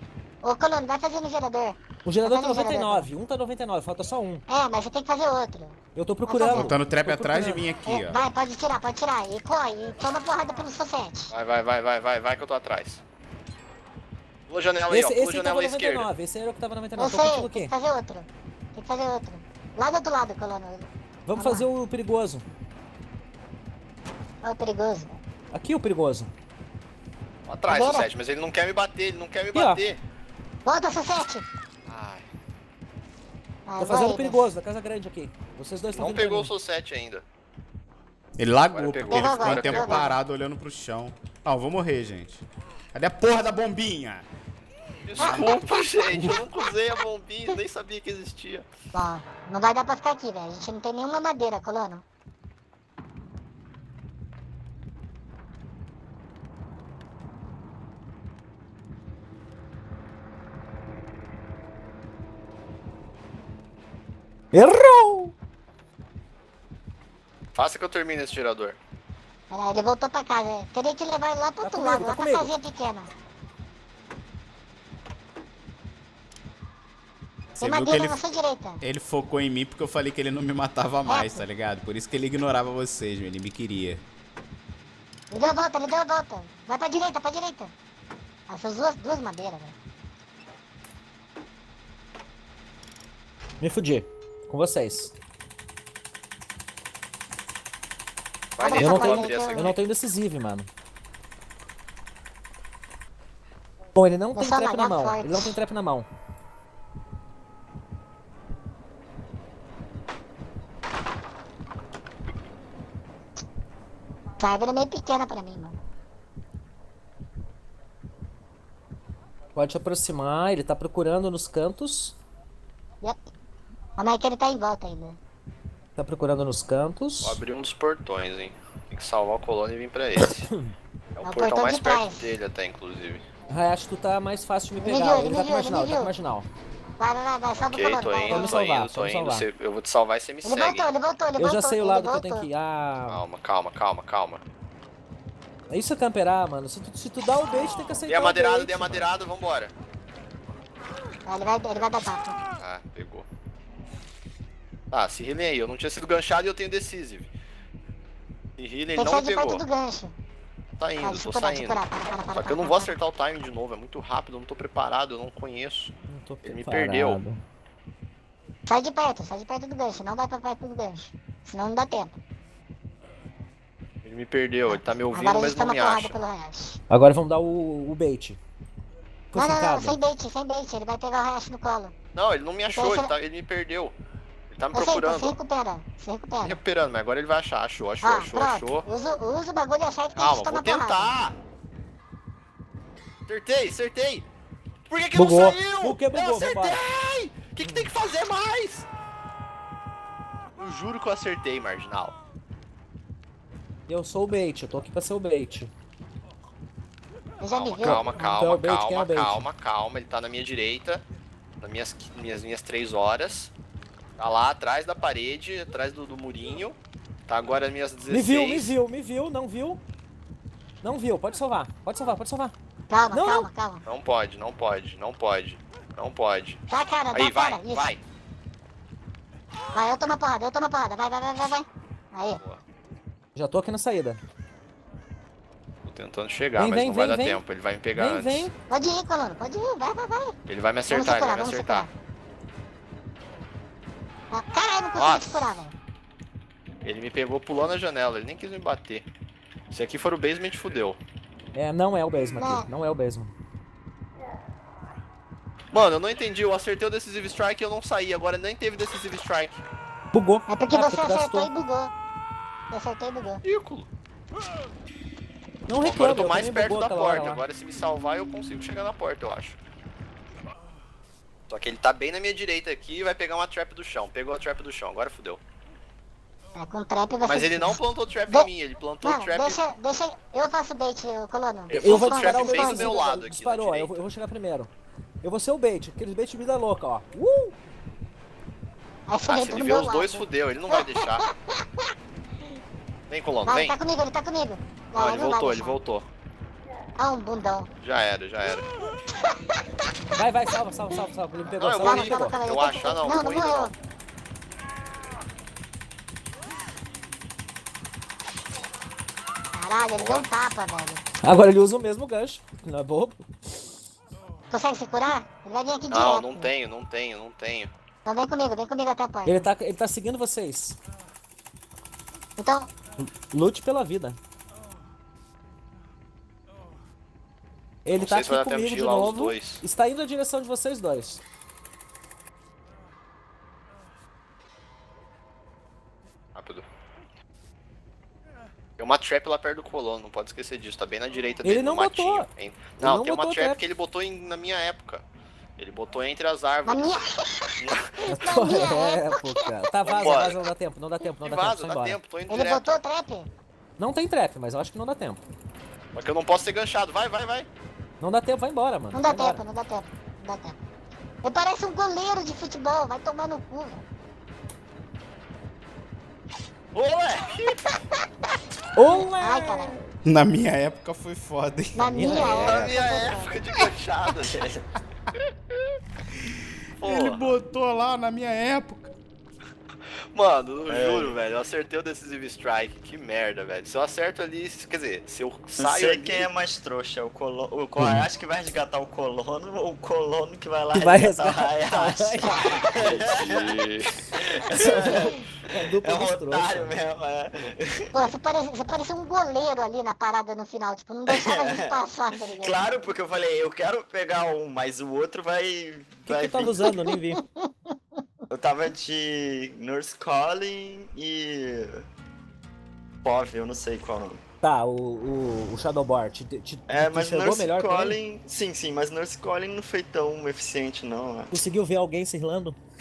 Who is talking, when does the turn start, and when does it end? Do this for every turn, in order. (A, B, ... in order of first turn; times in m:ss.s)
0:00.4-0:03.1 A
0:02.0-0:04.4 B
0:04.5-0:06.7 A
0:05.9-0:07.6 B
0:06.5-0:08.2 C
0:07.8-0:11.3 A
0:11.3-0:13.0 D
0:14.5-0:16.1 D
0:14.9-0:17.7 B
0:17.0-0:21.6 A
0:21.2-0:22.4 B
0:24.4-0:25.2 A
0:25.5-0:26.3 B
0:27.5-0:30.0 D
0:27.7-0:28.1 A
0:29.5-0:29.8 B
0:30.6-0:31.4 A
0:31.9-0:32.2 D
0:33.7-0:34.5 A
0:33.8-0:36.5 B
0:35.9-0:37.2 D
0:38.4-0:44.2 C
0:38.7-0:40.1 D
0:39.1-0:40.2 A
0:45.0-0:48.6 D
0:45.2-0:45.8 C
0:45.2-0:45.6 A
0:48.9-0:52.0 A
1:04.5-1:05.3 B
1:07.5-1:08.8 D
1:09.5-1:13.1 A
1:11.6-1:12.5 B
1:17.6-1:18.2 C
1:17.6-1:18.8 A
1:18.8-1:24.0 C
1:21.0-1:21.4 A
1:25.3-1:27.7 A
1:28.5-1:29.7 A
1:33.6-1:35.1 B
1:38.6-1:39.8 D
1:38.6-1:39.7 A
1:38.8-1:40.7 B
1:43.9-1:46.1 B
1:44.3-1:45.6 A
1:54.4-1:55.8 A
1:59.5-2:02.2 B
2:04.0-2:05.2 A
2:06.0-2:07.4 B
2:07.2-2:10.5 D
2:11.2-2:13.2 D
2:11.2-2:12.4 A
2:13.5-2:16.5 B
2:14.8-2:16.1 A
2:17.0-2:18.6 A
2:17.6-2:20.9 D
2:18.3-2:19.4 B
2:20.4-2:22.5 A
2:21.4-2:23.2 B
2:23.1-2:24.4 D
2:25.7-2:29.1 B
2:28.0-2:29.7 D
2:31.2-2:32.4 A
2:32.6-2:33.3 D
2:34.9-2:37.3 D
2:38.6-2:39.6 D
2:38.9-2:40.1 A
2:40.8-2:41.8 D
2:41.0-2:42.9 A
2:42.3-2:45.9 D
2:46.1-2:47.4 B
2:46.4-2:47.2 D
2:48.7-2:52.2 A
2:54.0-2:56.2 D
2:54.7-2:56.8 A
2:56.9-2:58.4 B
2:59.3-3:00.0 B
2:59.3-3:01.9 A
3:02.1-3:03.9 D
3:02.7-3:03.1 A
3:04.5-3:05.4 D
3:04.7-3:06.6 A
3:06.4-3:08.8 D
3:08.0-3:11.1 A
3:10.2-3:11.3 D
3:13.3-3:14.2 D
3:14.9-3:18.9 D
3:15.1-3:16.8 B
3:17.6-3:17.9 B
3:20.6-3:22.2 D
3:23.9-3:25.7 B
3:27.4-3:28.0 A
3:27.5-3:31.0 D
3:27.8-3:29.4 B
3:31.6-3:33.5 D
3:34.2-3:36.8 D
3:37.3-3:38.8 D
3:38.1-3:39.8 B
3:40.8-3:42.5 B
3:42.9-3:43.8 A
3:43.1-3:43.5 B
3:43.8-3:48.0 D
3:46.7-3:47.9 A
3:49.7-3:52.4 A
3:53.3-3:54.2 B
3:55.8-3:58.5 D
3:56.6-3:57.4 B
3:58.0-3:58.5 B
3:58.7-4:00.4 A
4:00.5-4:01.9 D
4:00.9-4:01.9 A
4:04.3-4:05.7 A
4:04.9-4:05.5 D
4:06.8-4:09.0 D
4:09.7-4:11.0 D
4:11.5-4:13.3 B
4:12.4-4:12.7 A
4:15.7-4:19.6 D
4:20.1-4:21.5 B
4:20.5-4:21.9 A
4:22.7-4:23.4 A
4:23.4-4:23.9 D
4:25.7-4:27.4 B
4:25.8-4:29.6 D
4:31.5-4:35.4 D
4:36.6-4:38.5 A
4:37.2-4:39.6 D
4:39.0-4:43.0 A
4:41.7-4:43.9 D
4:41.7-4:44.7 B
4:45.2-4:47.6 B
4:49.1-4:51.8 A
4:49.2-4:51.2 D
4:53.1-4:53.7 D
4:53.4-4:55.8 A
4:54.9-4:56.1 D
4:57.0-4:57.7 A
4:57.8-4:58.6 D
5:00.1-5:02.4 B
5:01.5-5:03.7 D
5:01.8-5:03.7 A
5:09.5-5:11.0 A
5:10.0-5:10.3 D
5:11.2-5:13.2 B
5:14.5-5:16.5 A
5:15.9-5:17.7 D
5:18.0-5:19.5 A
5:19.2-5:20.8 B
5:22.4-5:22.7 A
5:23.0-5:24.2 B
5:27.8-5:31.2 B
5:27.9-5:29.6 D
5:36.4-5:36.6 D
5:38.8-5:45.0 D
5:41.4-5:42.3 B
5:42.8-5:43.6 B
5:45.6-5:46.9 D
5:46.6-5:49.4 A
5:47.6-5:47.8 D
5:48.1-5:52.0 B
5:49.8-5:50.4 D
5:51.2-5:52.8 D
5:52.3-5:53.3 A
5:53.8-5:55.2 B
5:55.9-5:57.5 D
5:58.0-5:59.4 B
5:58.9-6:00.6 A
6:01.2-6:03.8 A
6:06.7-6:07.7 D
6:08.7-6:09.8 B
6:09.2-6:09.7 A
6:10.0-6:13.3 C
6:11.7-6:13.4 A
6:11.9-6:12.5 B
6:12.4-6:14.4 D
6:14.0-6:14.6 E
6:16.2-6:18.9 C
6:16.8-6:17.4 D
6:20.1-6:26.2 D
6:20.7-6:21.2 E
6:25.6-6:33.5 E
6:27.8-6:28.0 B
6:30.7-6:32.6 B
6:32.8-6:33.9 D
6:34.1-6:35.1 E
6:34.5-6:36.8 B
6:35.7-6:37.9 E
6:37.9-6:42.6 A
6:41.1-6:46.7 E
6:46.0-6:47.2 B
6:47.1-6:47.5 A
6:48.3-6:51.8 E
6:53.0-6:54.2 E
6:54.4-6:58.0 B
6:56.7-7:01.3 E
7:01.3-7:02.6 B